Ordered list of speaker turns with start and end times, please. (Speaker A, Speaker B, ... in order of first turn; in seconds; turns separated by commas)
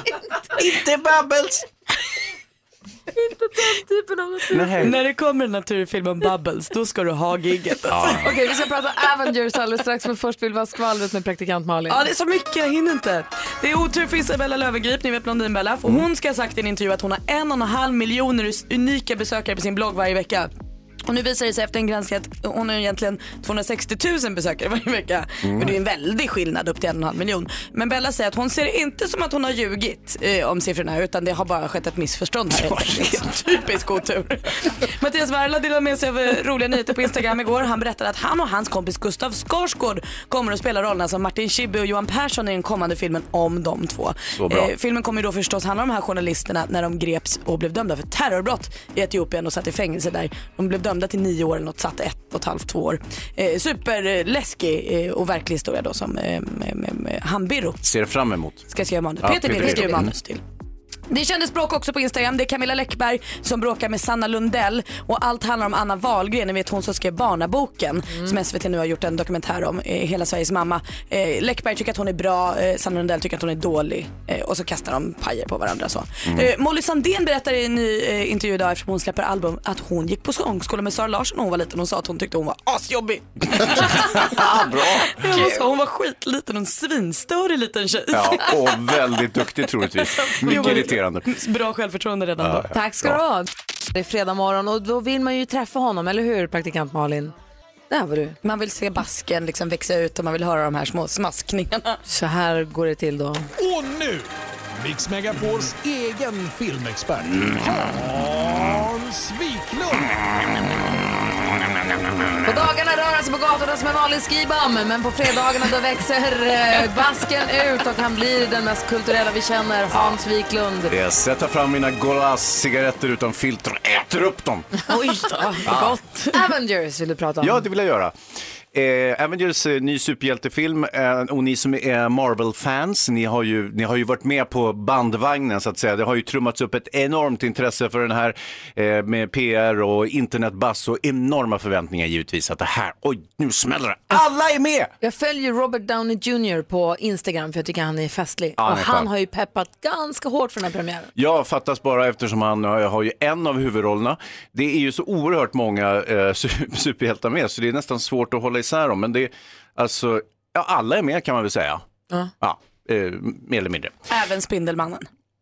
Speaker A: 0.4-1.6, Speaker B: 3.2-4.9, Speaker A: 4.5-5.0, Speaker C: 4.8-8.3, Speaker A: 7.9-8.3, Speaker B: 8.2-12.0, Speaker C: 11.9-20.5, Speaker C: 21.1-57.8, Speaker A: 25.4-25.7, Speaker A: 32.5-33.3, Speaker A: 44.4-44.7, Speaker A: 57.8-58.7, Speaker C: 58.7-60.4, Speaker A: 59.2-60.1, Speaker B: 59.6-60.0, Speaker C: 61.1-88.8, Speaker A: 76.2-76.5, Speaker A: 83.5-85.5, Speaker A: 88.1-91.3, Speaker C: 90.2-92.7, Speaker A: 92.4-93.2, Speaker B: 92.7-97.3, Speaker B: 97.9-98.4, Speaker C: 98.4-102.0, Speaker B: 102.1-103.5, Speaker D: 103.6-110.1, Speaker B: 112.4-120.9, Speaker A: 120.9-124.7, Speaker C: 124.9-126.4, Speaker A: 125.6-126.0, Speaker B: 126.3-127.6, Speaker A: 127.4-128.1, Speaker A: 128.7-144.9, Speaker B: 145.0-151.1, Speaker A: 148.6-149.1, Speaker A: 151.1-161.8, Speaker A: 162.4-163.9, Speaker C: 164.1-165.1